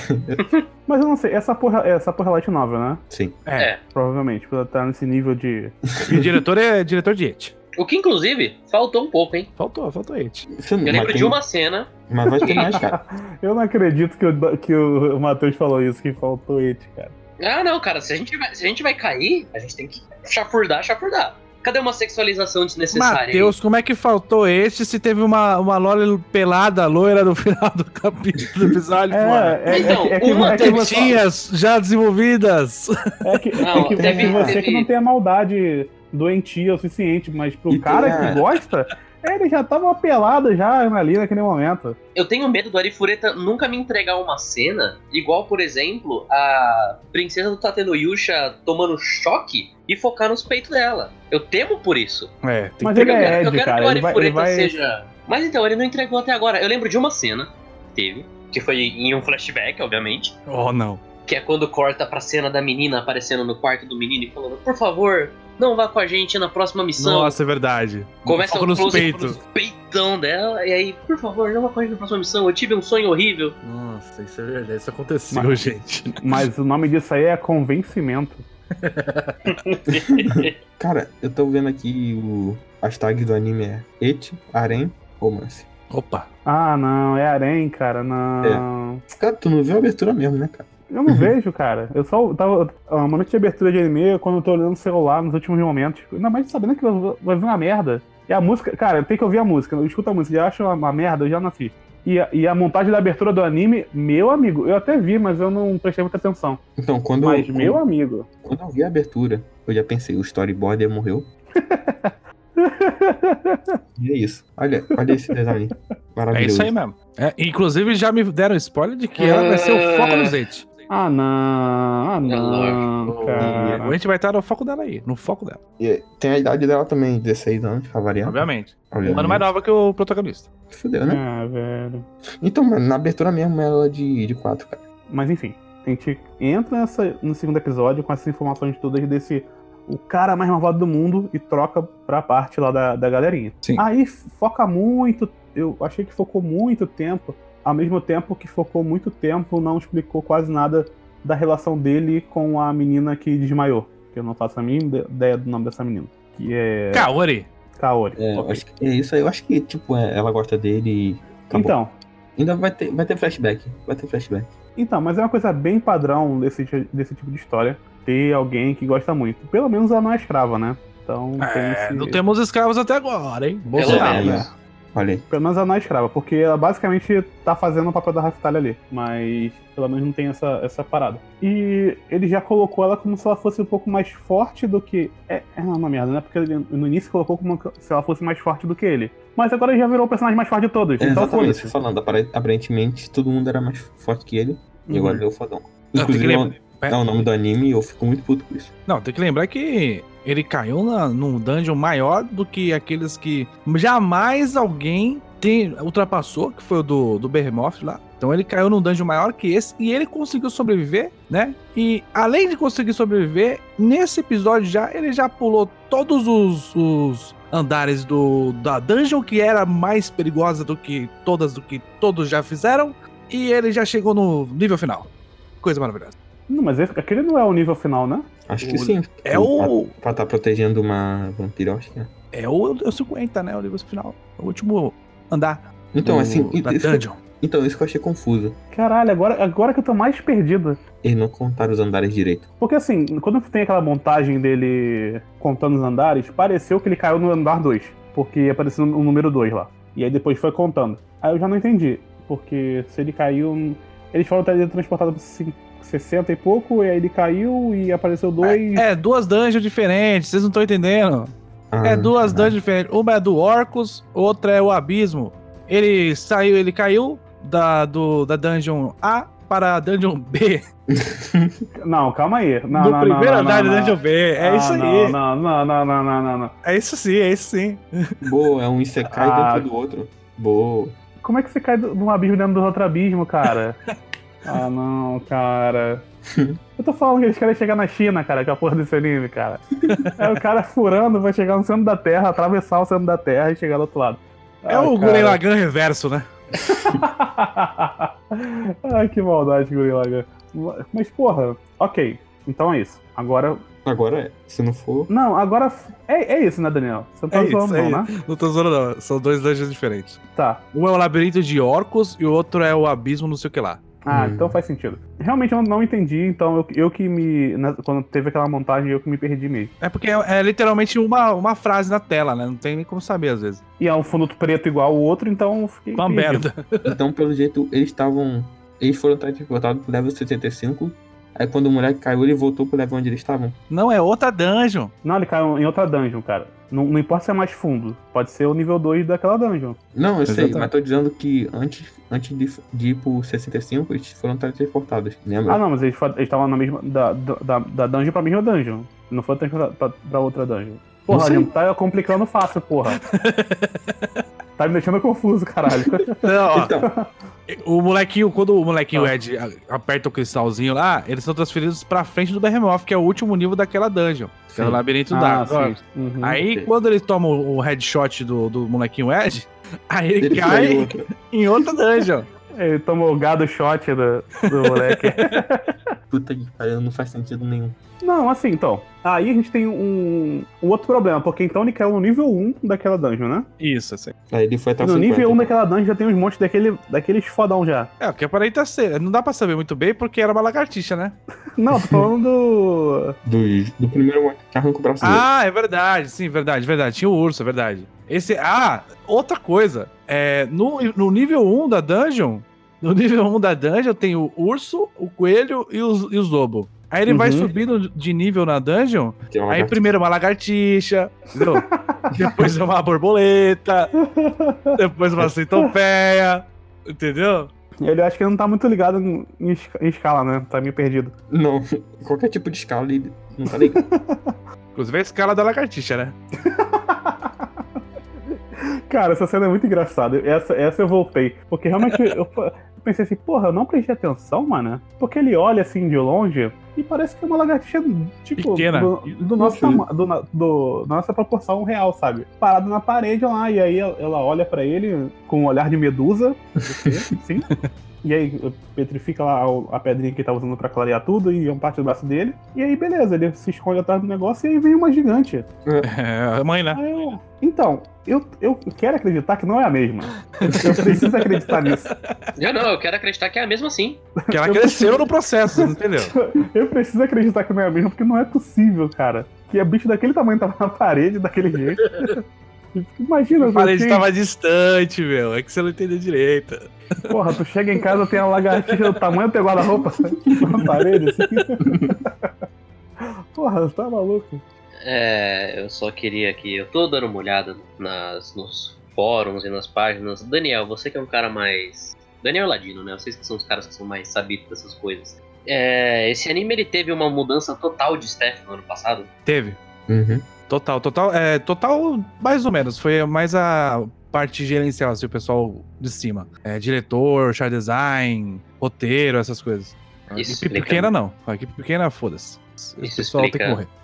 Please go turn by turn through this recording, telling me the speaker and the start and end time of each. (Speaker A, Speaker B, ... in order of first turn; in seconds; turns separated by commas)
Speaker A: 0.1-0.5, Speaker B: 0.9-3.0, Speaker A: 3.1-3.4, Speaker C: 3.5-3.7, Speaker B: 3.9-5.8, Speaker C: 6.0-7.5, Speaker D: 7.8-9.5, Speaker C: 9.6-10.5, Speaker A: 10.5-11.4, Speaker D: 10.8-11.9, Speaker A: 12.1-13.0, Speaker B: 12.4-17.1, Speaker D: 12.4-12.8, Speaker D: 17.4-23.6, Speaker C: 22.9-33.4, Speaker B: 29.1-31.2, Speaker D: 29.7-30.9, Speaker B: 33.2-42.0, Speaker D: 33.6-34.9, Speaker A: 34.0-34.6, Speaker A: 37.7-38.4, Speaker D: 42.1-52.3, Speaker C: 52.4-53.4, Speaker B: 52.8-54.8, Speaker D: 53.0-60.4, Speaker C: 60.5-61.0, Speaker D: 61.3-67.4, Speaker C: 67.0-69.4, Speaker D: 68.3-73.6, Speaker C: 73.6-76.5, Speaker B: 75.3-75.7, Speaker B: 76.2-78.5, Speaker C: 78.8-79.4, Speaker D: 79.5-80.5, Speaker A: 80.8-85.7, Speaker C: 85.9-86.3, Speaker B: 86.5-89.0, Speaker A: 88.4-91.3, Speaker B: 90.9-106.6, Speaker A: 106.8-107.8, Speaker B: 107.2-108.3, Speaker A: 108.4-111.3, Speaker B: 111.6-113.8, Speaker A: 114.0-116.7, Speaker C: 116.3-120.7, Speaker D: 119.2-120.3, Speaker B: 120.9-124.0, Speaker D: 122.3-122.9, Speaker C: 123.0-125.6, Speaker A: 123.4-123.8, Speaker A: 125.8-129.5, Speaker C: 128.2-130.5, Speaker A: 130.7-131.2, Speaker B: 131.1-132.1, Speaker A: 132.4-134.8, Speaker B: 135.1-157.1, Speaker C: 156.9-157.5, Speaker B: 157.8-158.6, Speaker A: 158.2-161.8, Speaker B: 161.5-161.9, Speaker A: 162.4-164.5, Speaker B: 164.8-172.2, Speaker C: 171.4-174.5, Speaker D: 173.8-174.4, Speaker A: 173.8-175.3, Speaker B: 173.8-174.5, Speaker B: 175.3-191.7, Speaker A: 191.0-198.7, Speaker B: 194.9-195.2, Speaker C: 196.0-197.1, Speaker C: 198.9-225.1, Speaker C: 225.6-226.2, Speaker B: 226.5-228.3, Speaker A: 228.5-232.1, Speaker C: 228.6-229.9, Speaker C: 232.3-237.2, Speaker A: 235.9-238.6, Speaker B: 238.7-240.8, Speaker A: 241.0-242.5, Speaker B: 242.6-258.9, Speaker C: 258.4-261.3, Speaker A: 261.7-262.6, Speaker C: 261.8-270.6, Speaker A: 270.9-271.7, Speaker B: 271.8-276.5, Speaker C: 272.7-275.2, Speaker C: 276.6-278.1, Speaker A: 278.2-281.0, Speaker B: 279.1-279.7, Speaker B: 281.2-283.8, Speaker B: 284.4-286.1, Speaker A: 286.3-286.6, Speaker B: 286.8-289.7, Speaker C: 289.9-290.2, Speaker B: 290.2-295.4, Speaker C: 294.7-296.3, Speaker B: 296.6-303.6, Speaker A: 303.9-305.1, Speaker B: 305.1-308.1, Speaker C: 307.3-310.2, Speaker B: 310.4-310.6, Speaker C: 310.7-313.8, Speaker B: 314.0-319.7, Speaker A: 314.1-314.6, Speaker C: 319.8-323.6, Speaker B: 323.8-326.5, Speaker C: 326.0-326.9, Speaker A: 326.9-333.6, Speaker C: 333.7-334.9, Speaker B: 335.0-339.8, Speaker A: 339.9-345.6, Speaker C: 340.3-340.7, Speaker B: 345.5-353.0, Speaker A: 351.1-351.5, Speaker C: 353.1-354.2, Speaker B: 354.6-356.2, Speaker C: 356.2-356.7, Speaker A: 356.5-356.9, Speaker B: 356.8-357.1, Speaker C: 357.5-372.3, Speaker A: 364.5-364.8, Speaker B: 365.1-366.4, Speaker A: 370.2-371.1, Speaker B: 372.6-375.8, Speaker C: 374.6-375.3, Speaker A: 376.1-377.8, Speaker B: 378.0-383.5, Speaker C: 383.6-384.1, Speaker A: 384.3-385.6, Speaker B: 384.8-387.9, Speaker C: 388.0-391.2, Speaker B: 391.6-393.2, Speaker A: 391.8-392.1, Speaker A: 393.2-395.3, Speaker C: 395.0-413.9, Speaker B: 407.1-407.5, Speaker A: 409.3-409.9, Speaker B: 411.4-412.0, Speaker B: 414.1-414.8, Speaker C: 414.8-417.5, Speaker B: 417.8-421.1, Speaker A: 421.3-423.8, Speaker B: 423.5-424.3, Speaker C: 424.8-426.1, Speaker B: 426.4-427.3, Speaker B: 428.9-455.5, Speaker C: 438.4-438.9, Speaker A: 439.4-439.9, Speaker C: 455.8-456.8, Speaker B: 456.7-461.9, Speaker C: 460.4-461.9, Speaker A: 460.5-461.0, Speaker D: 462.4-464.0, Speaker B: 464.3-472.2, Speaker C: 464.3-466.1, Speaker B: 472.7-474.1, Speaker C: 473.4-477.1, Speaker B: 477.1-482.3, Speaker C: 478.5-479.0, Speaker A: 481.6-482.0, Speaker B: 483.3-484.4, Speaker D: 484.8-499.1, Speaker C: 499.3-499.6, Speaker A: 499.9-500.3, Speaker C: 500.5-513.7, Speaker D: 510.1-510.9, Speaker D: 512.8-513.6